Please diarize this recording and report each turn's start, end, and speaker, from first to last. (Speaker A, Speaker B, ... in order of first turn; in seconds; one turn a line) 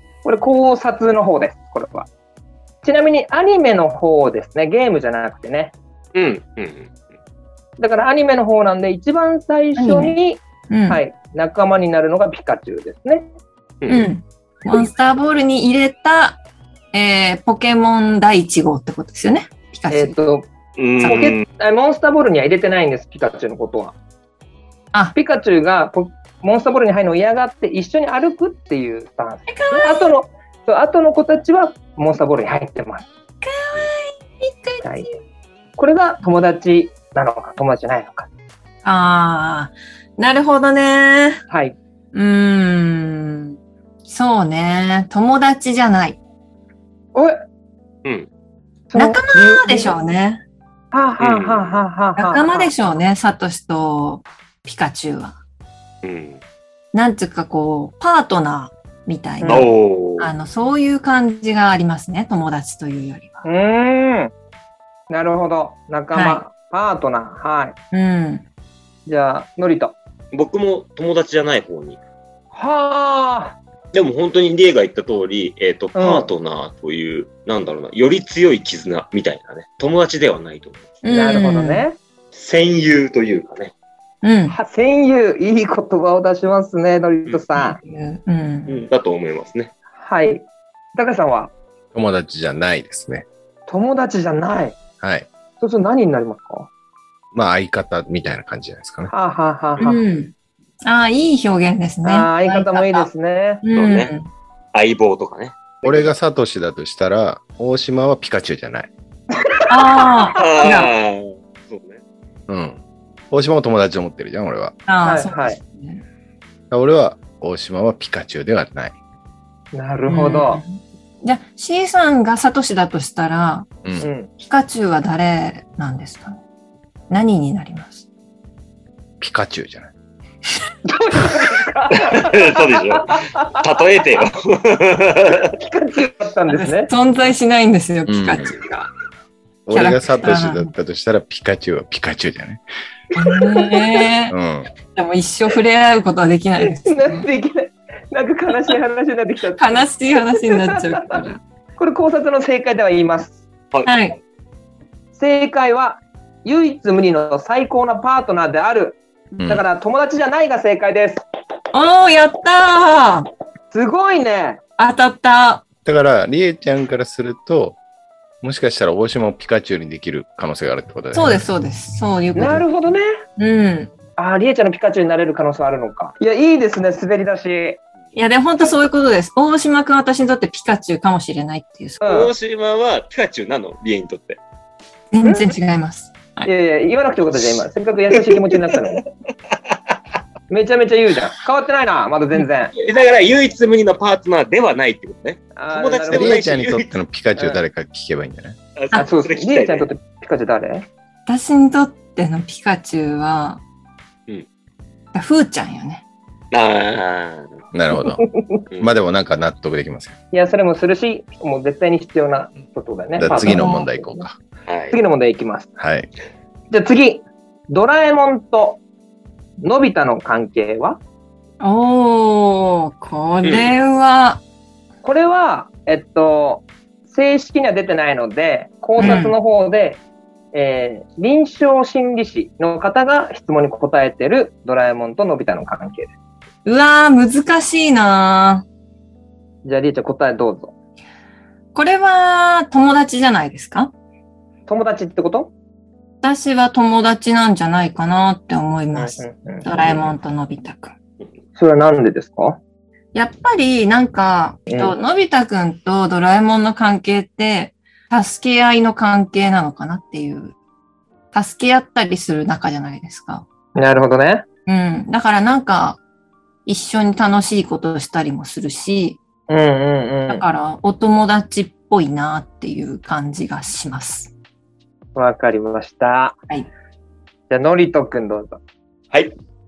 Speaker A: 0.2-2.1
Speaker A: 2.8-5.7
Speaker B: 6.1-6.9
Speaker A: 7.8-13.3
Speaker C: 9.8-10.2
Speaker C: 10.7-11.0
Speaker B: 13.8-14.1
Speaker C: 13.9-16.4
Speaker C: 16.9-20.1
Speaker A: 19.9-20.5
Speaker B: 20.8-21.4
Speaker A: 21.0-23.9
Speaker A: 25.1-33.0
Speaker C: 29.5-30.1
Speaker C: 33.4-35.1
Speaker A: 34.8-35.1
Speaker A: 35.8-38.3
Speaker C: 38.8-41.4
Speaker A: 41.5-41.8
Speaker C: 42.1-43.5
Speaker C: 44.1-46.2
Speaker B: 48.0-48.3
Speaker A: 48.9-49.9
Speaker C: 48.9-50.4
Speaker A: 50.9-52.7
Speaker B: 51.2-51.8
Speaker C: 52.2-55.4
Speaker B: 56.0-56.4
Speaker C: 56.9-63.4
Speaker A: 59.4-59.7
Speaker B: 59.5-60.3
Speaker A: 63.4-64.3
Speaker A: 65.1-67.8
Speaker C: 66.1-66.4
Speaker C: 67.9-68.4
Speaker A: 69.0-69.9
Speaker B: 70.3-72.0
Speaker A: 72.5-73.6
Speaker B: 73.9-81.0
Speaker A: 75.9-76.3
Speaker C: 81.0-81.8
Speaker A: 81.1-82.0
Speaker B: 82.3-83.7
Speaker C: 84.2-84.5
Speaker A: 84.5-87.8
Speaker C: 87.5-88.8
Speaker B: 88.7-89.7
Speaker A: 90.0-90.4
Speaker A: 90.9-91.5
Speaker D: 91.9-93.2
Speaker A: 93.7-94.8
Speaker D: 95.0-95.3
Speaker A: 95.6-96.7
Speaker D: 97.3-99.1
Speaker A: 99.1-100.0
Speaker C: 99.8-100.3
Speaker C: 100.8-103.0
Speaker A: 102.0-103.6
Speaker C: 103.6-104.3
Speaker B: 103.7-104.1
Speaker B: 104.7-106.1
Speaker D: 105.8-108.9
Speaker C: 109.7-110.9
Speaker A: 109.7-110.4
Speaker B: 110.3-112.0
Speaker D: 112.5-112.8
Speaker D: 113.3-114.7
Speaker C: 114.9-116.0
Speaker A: 115.0-115.6
Speaker D: 116.7-118.9
Speaker A: 119.7-120.6
Speaker C: 120.1-123.7
Speaker D: 123.8-124.1
Speaker A: 124.0-124.3
Speaker C: 124.4-126.4
Speaker C: 127.1-128.1
Speaker D: 129.2-129.9
Speaker A: 130.8-134.2
Speaker B: 131.9-135.5
Speaker A: 135.5-136.9
Speaker C: 136.5-138.9
Speaker D: 138.1-138.5
Speaker D: 139.7-142.6
Speaker C: 139.7-140.7
Speaker C: 143.1-144.3
Speaker A: 143.2-144.0
Speaker D: 144.3-144.7
Speaker C: 144.9-147.3
Speaker A: 146.8-151.2
Speaker C: 149.6-151.4
Speaker A: 151.8-153.4
Speaker C: 153.8-154.2
Speaker A: 155.2-161.2
Speaker D: 159.4-159.6
Speaker C: 161.7-163.3
Speaker A: 163.7-164.6
Speaker C: 164.8-165.6
Speaker D: 165.8-167.8
Speaker D: 168.4-171.4
Speaker C: 171.1-172.6
Speaker A: 172.3-173.1
Speaker C: 173.4-173.9
Speaker A: 174.2-177.8
Speaker C: 178.1-182.0
Speaker A: 182.0-182.3
Speaker B: 182.0-184.4
Speaker C: 185.1-186.5
Speaker A: 185.2-185.5
Speaker A: 186.4-189.1
Speaker B: 188.1-188.8
Speaker A: 190.5-192.7
Speaker B: 192.8-196.9
Speaker A: 195.6-196.5
Speaker D: 196.1-198.6
Speaker B: 198.8-199.9
Speaker A: 198.9-200.9
Speaker C: 201.2-203.6
Speaker C: 205.1-206.0
Speaker B: 206.5-207.7
Speaker D: 207.7-208.2
Speaker D: 208.8-210.2
Speaker A: 210.3-214.2
Speaker D: 213.2-214.4
Speaker C: 213.4-213.8
Speaker B: 214.7-215.0
Speaker A: 214.9-215.8
Speaker D: 215.8-216.1
Speaker A: 216.7-218.8
Speaker A: 219.6-221.0
Speaker C: 221.6-224.4
Speaker B: 223.4-223.7
Speaker A: 225.0-230.0
Speaker C: 229.0-229.3
Speaker A: 230.5-236.1
Speaker C: 236.6-238.6
Speaker A: 239.6-240.7
Speaker C: 241.7-243.9
Speaker A: 244.7-245.5
Speaker C: 246.2-250.9
Speaker A: 248.9-249.7
Speaker A: 251.6-252.6
Speaker C: 253.1-260.5
Speaker A: 254.7-254.9
Speaker C: 261.3-263.4
Speaker A: 263.8-264.4
Speaker C: 264.6-266.0
Speaker C: 266.6-269.2
Speaker A: 269.5-270.4
Speaker C: 270.3-274.3
Speaker A: 275.1-276.4
Speaker A: 277.5-278.6